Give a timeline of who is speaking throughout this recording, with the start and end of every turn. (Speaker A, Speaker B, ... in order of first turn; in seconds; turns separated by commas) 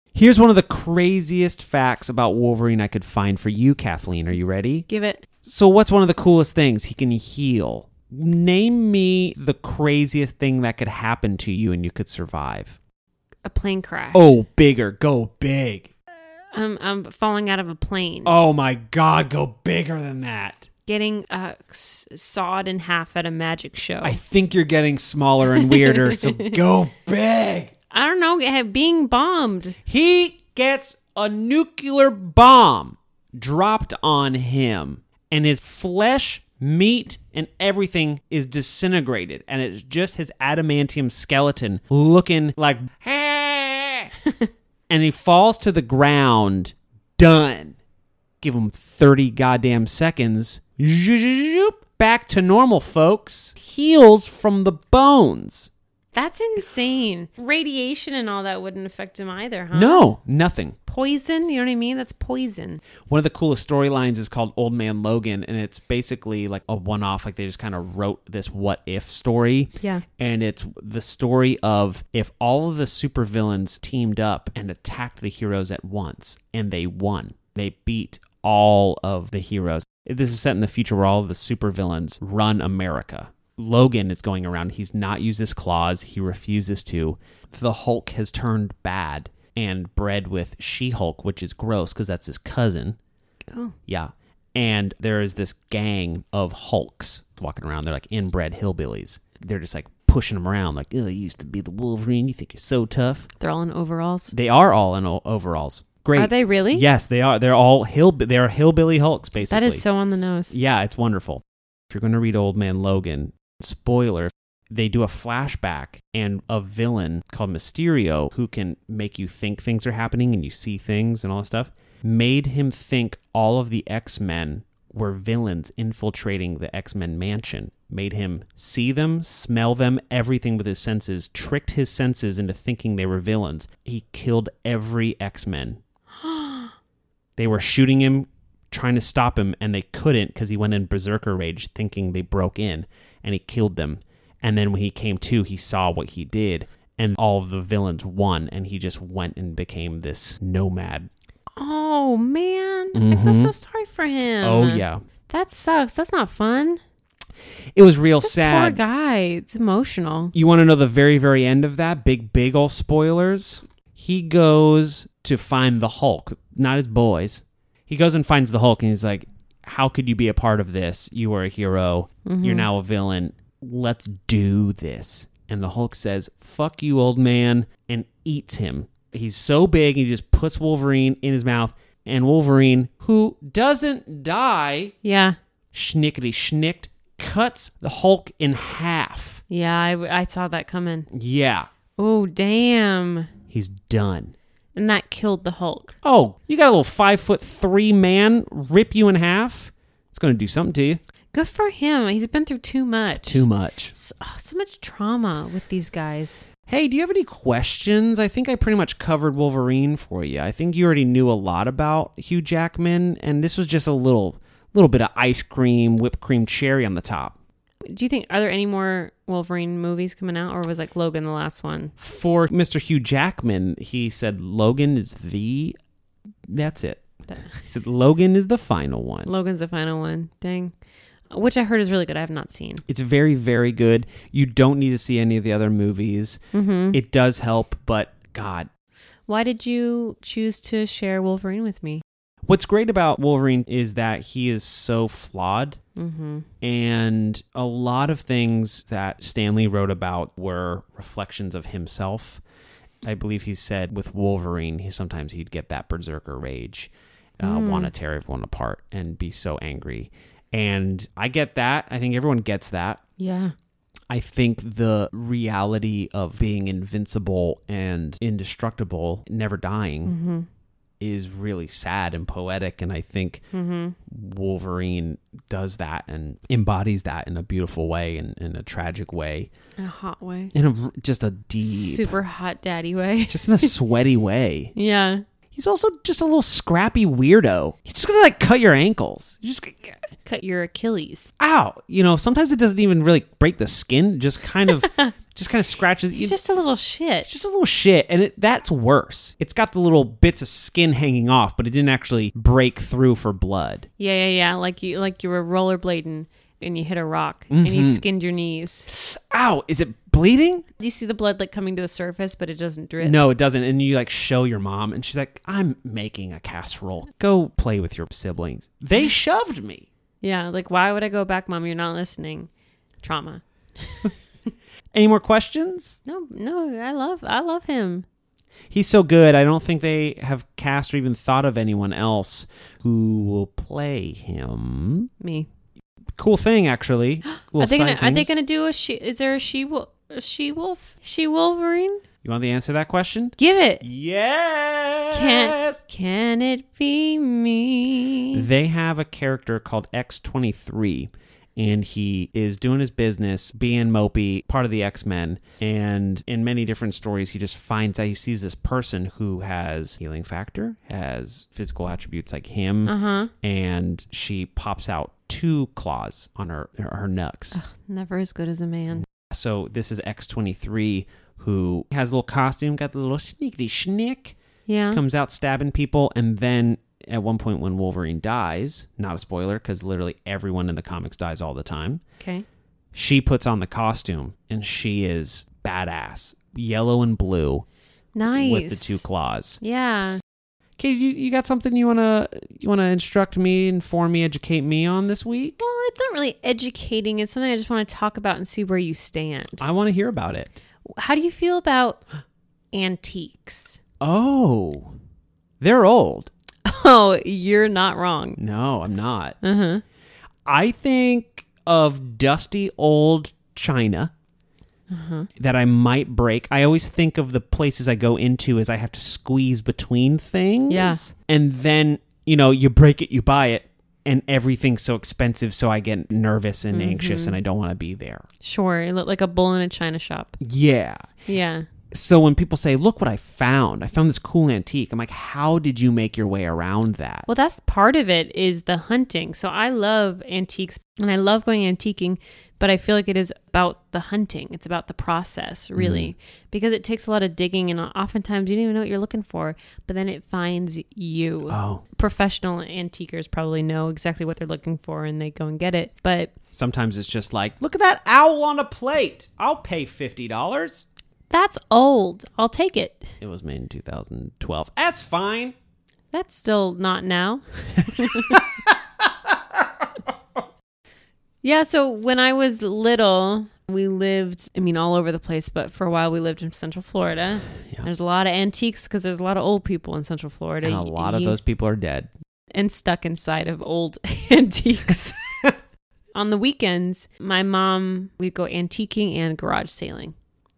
Speaker A: 0.1-4.9, Speaker B: 4.9-5.3, Speaker A: 5.4-12.8, Speaker B: 13.4-14.3, Speaker A: 14.1-15.9, Speaker B: 16.5-18.3, Speaker A: 18.2-20.7, Speaker B: 20.9-24.2, Speaker A: 24.0-27.7, Speaker B: 25.5-26.6, Speaker B: 27.9-29.8, Speaker A: 29.9-44.1, Speaker A: 44.9-47.8, Speaker A: 48.4-55.7, Speaker B: 56.1-60.1, Speaker A: 59.7-60.8, Speaker B: 60.9-62.8, Speaker A: 63.1-93.0, Speaker B: 69.8-70.0, Speaker A: 93.9-103.3, Speaker B: 103.4-104.3, Speaker A: 104.3-109.8, Speaker B: 106.2-106.9, Speaker B: 109.5-110.5, Speaker A: 110.5-135.8, Speaker B: 136.2-136.7, Speaker A: 137.4-151.1, Speaker B: 151.6-156.8, Speaker A: 152.9-153.5, Speaker A: 154.4-155.0, Speaker A: 157.8-158.8, Speaker B: 158.2-160.3, Speaker A: 160.3-184.9, Speaker B: 172.2-172.7, Speaker B: 185.0-185.4, Speaker A: 185.7-189.4, Speaker B: 189.5-191.1, Speaker A: 191.1-191.7, Speaker B: 192.0-193.3, Speaker A: 193.5-194.3, Speaker B: 194.8-195.9, Speaker A: 196.0-201.0, Speaker B: 201.3-206.5, Speaker A: 203.2-203.9, Speaker A: 206.7-217.4, Speaker B: 217.8-221.9, Speaker A: 222.0-225.8, Speaker A: 226.5-229.3, Speaker B: 227.3-227.7, Speaker B: 229.3-230.7, Speaker B: 231.3-232.8, Speaker A: 232.9-236.4, Speaker B: 236.5-237.0, Speaker A: 236.9-238.7, Speaker B: 239.3-242.0, Speaker A: 242.5-245.8, Speaker B: 246.0-246.5, Speaker A: 246.6-252.4, Speaker A: 253.0-263.0, Speaker B: 257.4-257.9, Speaker B: 263.2-263.6, Speaker A: 264.1-270.1, Speaker B: 270.1-270.5, Speaker A: 271.0-273.4, Speaker B: 273.5-274.0, Speaker A: 274.1-279.5, Speaker B: 279.8-280.5, Speaker A: 280.5-282.1, Speaker B: 281.6-283.8, Speaker A: 283.3-284.7, Speaker B: 284.8-285.2, Speaker A: 285.5-290.1, Speaker B: 290.3-291.3, Speaker A: 291.4-296.4, Speaker B: 294.6-295.1, Speaker B: 296.1-297.3, Speaker A: 297.3-303.9, Speaker B: 304.0-308.9, Speaker A: 307.5-308.0, Speaker A: 308.9-310.7, Speaker B: 310.8-313.2, Speaker A: 313.0-319.9, Speaker B: 320.2-322.5, Speaker B: 323.0-324.1, Speaker A: 324.9-326.0, Speaker B: 326.1-328.1, Speaker A: 328.7-335.1, Speaker B: 335.2-335.5, Speaker A: 336.2-338.3, Speaker B: 337.3-342.0, Speaker A: 342.2-345.8, Speaker B: 343.4-343.8, Speaker B: 345.1-348.5, Speaker A: 348.3-367.6, Speaker B: 362.9-363.3, Speaker B: 367.5-369.0, Speaker A: 369.0-374.4, Speaker B: 374.7-375.0, Speaker A: 374.9-382.0, Speaker B: 382.2-382.4, Speaker A: 382.9-387.7, Speaker B: 388.1-389.1, Speaker A: 388.3-389.6, Speaker B: 389.6-390.2, Speaker A: 390.8-395.6, Speaker B: 395.6-399.6, Speaker A: 399.6-400.6, Speaker B: 400.9-402.0, Speaker B: 402.7-403.8, Speaker A: 404.0-404.9, Speaker A: 405.6-406.3, Speaker B: 406.6-408.4, Speaker A: 408.4-409.4, Speaker B: 409.4-409.8, Speaker A: 410.5-414.1, Speaker B: 414.9-415.3, Speaker A: 415.4-428.2, Speaker B: 420.7-421.0, Speaker B: 426.7-427.4, Speaker B: 428.4-430.4, Speaker A: 430.4-431.1, Speaker B: 431.3-431.7, Speaker A: 431.9-437.3, Speaker B: 437.3-456.3, Speaker A: 445.8-446.1, Speaker A: 451.5-451.8, Speaker A: 456.5-460.9, Speaker B: 461.3-463.1, Speaker A: 463.2-465.5, Speaker B: 466.1-468.4, Speaker A: 467.9-469.3, Speaker B: 471.4-481.4, Speaker A: 480.6-482.1, Speaker B: 482.5-485.3, Speaker B: 486.1-490.1